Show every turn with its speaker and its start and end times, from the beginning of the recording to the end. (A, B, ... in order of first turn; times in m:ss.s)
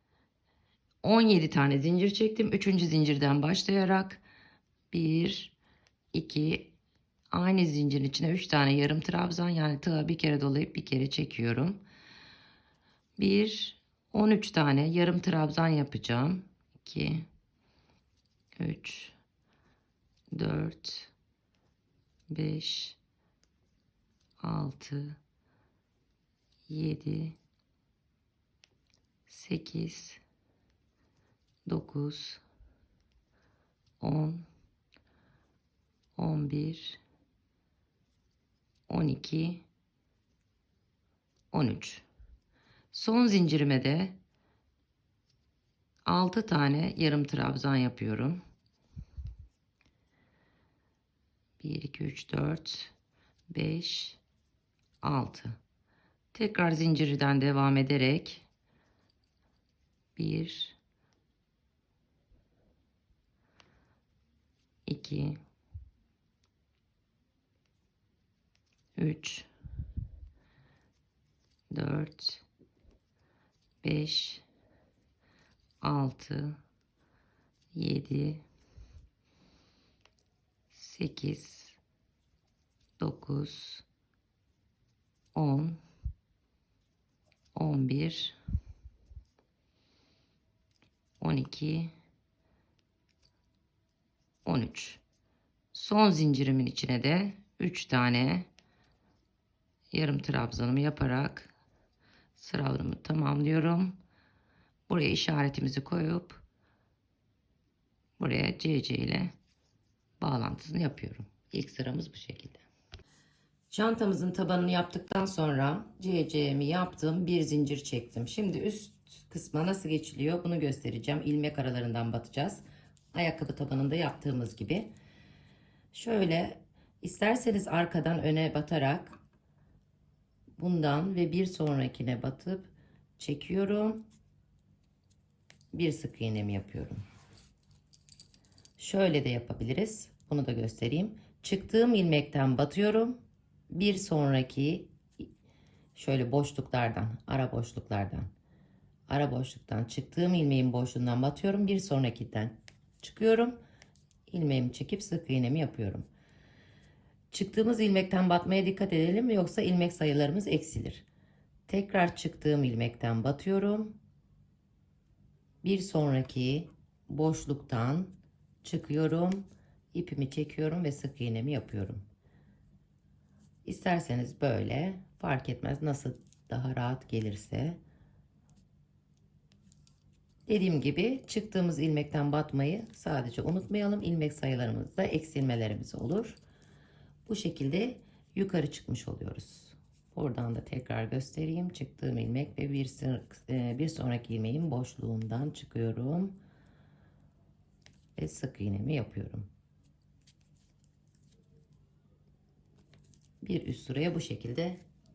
0:01.0-0:04.2 A
0:04.9-0:05.6 A
0:06.1-0:06.7 A
0:07.3-0:11.8 A
0:13.2-0:17.3 A
0:18.6-0:19.2 A
0:20.3-0:21.1 A
0:22.3-0:23.0 A
0:24.4-0:25.2 A
0:26.7-0:27.4 A
0:29.3-0:30.2 A
0:31.7-0:32.4 A
0:34.0-0:34.5 A
0:36.2-0:37.0 A
0:38.9-0:39.6 A
0:41.5-0:42.0 A
0:42.9-0:44.2 A
0:46.0-0:48.4 A
0:51.6-0:52.9 A
0:53.5-0:54.2 A
0:55.0-0:55.6 A
0:56.3-0:58.4 A
1:00.2-1:00.8 A
1:04.9-1:05.4 A
1:09.0-1:09.5 A
1:11.7-1:12.4 A
1:13.8-1:14.4 A
1:15.8-1:16.6 A
1:17.7-1:18.4 A
1:20.7-1:21.8 A
1:23.0-1:23.8 A
1:25.4-1:25.8 A
1:27.5-1:28.4 A
1:31.2-1:31.9 A
1:34.4-1:35.0 A
1:35.7-1:38.5 A
1:39.9-1:41.5 A
1:42.4-1:44.0 A
1:44.9-1:46.4 A
1:48.2-1:49.4 A
1:50.2-1:52.6 A
1:53.7-2:04.9 A
2:05.9-2:09.2 A
2:10.6-2:14.0 A
2:15.7-2:17.0 A
2:18.8-2:23.2 A
2:23.7-2:25.0 A
2:26.0-2:28.3 A
2:29.1-2:33.6 A
2:34.3-2:36.1 A
2:37.3-2:41.1 A
2:41.7-2:43.9 A
2:45.6-2:52.0 A
2:53.6-2:57.8 A
3:00.5-3:06.4 A
3:07.3-3:16.4 A
3:18.2-3:19.5 A
3:23.4-3:24.8 A